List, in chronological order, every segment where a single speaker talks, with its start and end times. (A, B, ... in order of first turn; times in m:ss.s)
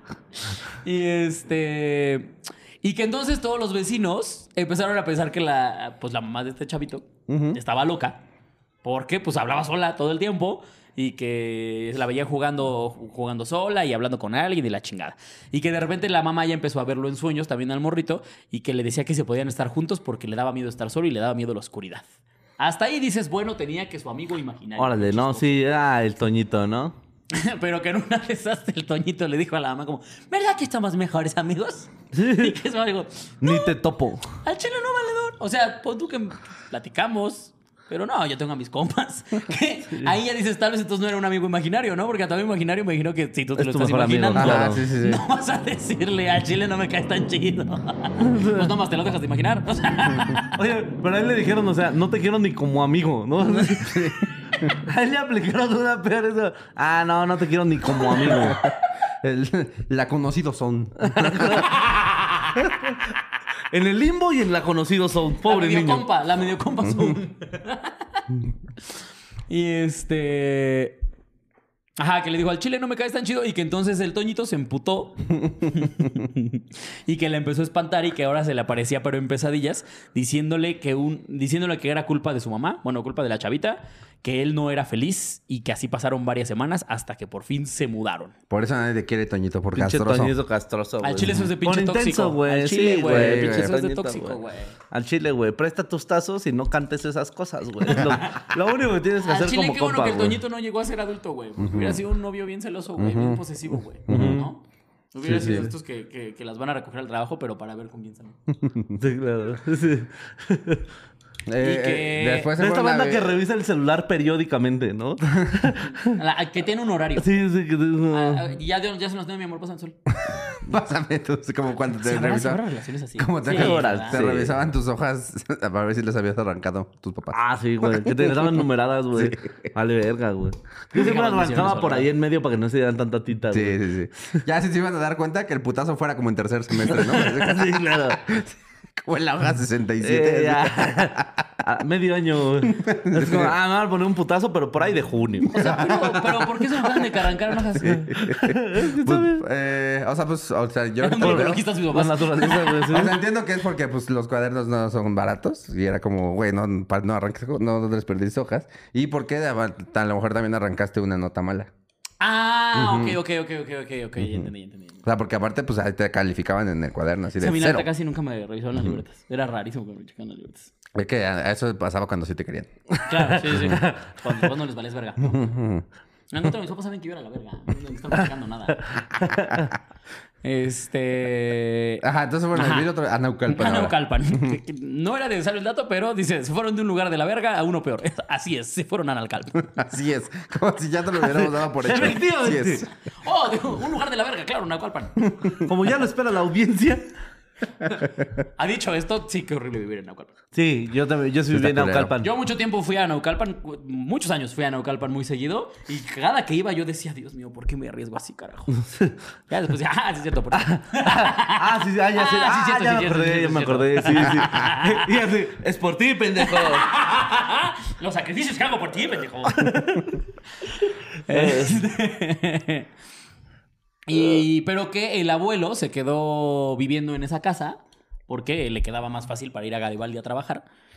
0:00.5-0:08.2 A
0:07.3-0:07.6 B
0:08.8-0:25.6 A
0:24.8-0:27.0 C
0:27.3-0:33.7 A
0:32.1-0:32.6 C
0:33.4-0:34.3 C
0:34.4-0:50.5 A
0:43.6-0:44.8 C
0:44.3-0:45.2 B
0:48.2-0:48.7 C
0:50.4-0:58.6 C
0:53.6-0:54.7 B
0:58.2-1:01.6 B
1:01.0-1:01.7 C
1:01.6-1:02.8 A
1:02.6-1:03.1 C
1:03.7-1:06.1 C
1:05.4-1:08.2 A
1:09.5-1:11.0 A
1:12.0-1:28.3 A
1:28.5-1:30.3 B
1:29.8-1:34.4 C
1:31.0-1:34.8 A
1:33.1-1:33.8 B
1:34.9-1:40.4 C
1:37.9-1:38.5 A
1:39.2-1:44.6 A
1:41.6-1:42.0 B
1:43.0-1:43.4 B
1:44.1-1:44.4 B
1:44.1-1:44.5 C
1:45.1-1:48.4 A
1:45.2-1:45.7 B
1:45.3-1:45.7 C
1:48.6-1:49.0 B
1:49.0-1:50.8 C
1:51.5-1:53.4 B
1:51.6-1:52.5 A
1:52.6-1:56.2 C
1:55.8-1:57.3 A
1:57.2-1:58.5 C
1:58.1-2:00.0 A
2:00.2-2:02.6 B
2:02.0-2:04.2 A
2:03.2-2:09.7 B
2:03.4-2:04.6 C
2:07.3-2:13.8 C
2:10.9-2:12.1 A
2:13.5-2:21.4 B
2:16.8-2:18.3 C
2:20.0-2:25.5 C
2:22.6-2:23.6 B
2:25.4-2:28.1 A
2:25.5-2:27.0 B
2:27.8-2:29.4 C
2:27.8-2:31.6 B
2:31.0-2:32.9 A
2:31.1-2:33.1 C
2:32.9-2:41.7 B
2:42.2-2:45.0 A
2:42.7-2:43.2 B
2:45.0-2:47.9 B
2:47.4-2:50.7 A
2:50.9-2:52.7 B
2:52.9-2:54.5 C
2:53.1-2:55.5 A
2:55.2-2:55.8 B
2:56.3-2:58.9 A
2:58.8-2:59.8 C
3:00.4-3:02.0 A
3:02.0-3:04.6 B
3:02.5-3:02.9 A
3:03.5-3:09.8 A
3:09.7-3:12.8 B
3:11.3-3:12.8 C
3:13.2-3:15.6 A
3:15.6-3:17.1 C
3:18.6-3:20.4 A
3:20.5-3:22.3 C
3:21.5-3:22.1 B
3:22.2-3:28.8 A
3:29.5-3:35.1 A
3:30.6-3:36.9 C
3:36.4-3:40.0 A
3:39.5-3:40.2 C
3:40.6-3:42.9 A
3:41.3-3:41.8 C
3:44.1-3:50.6 A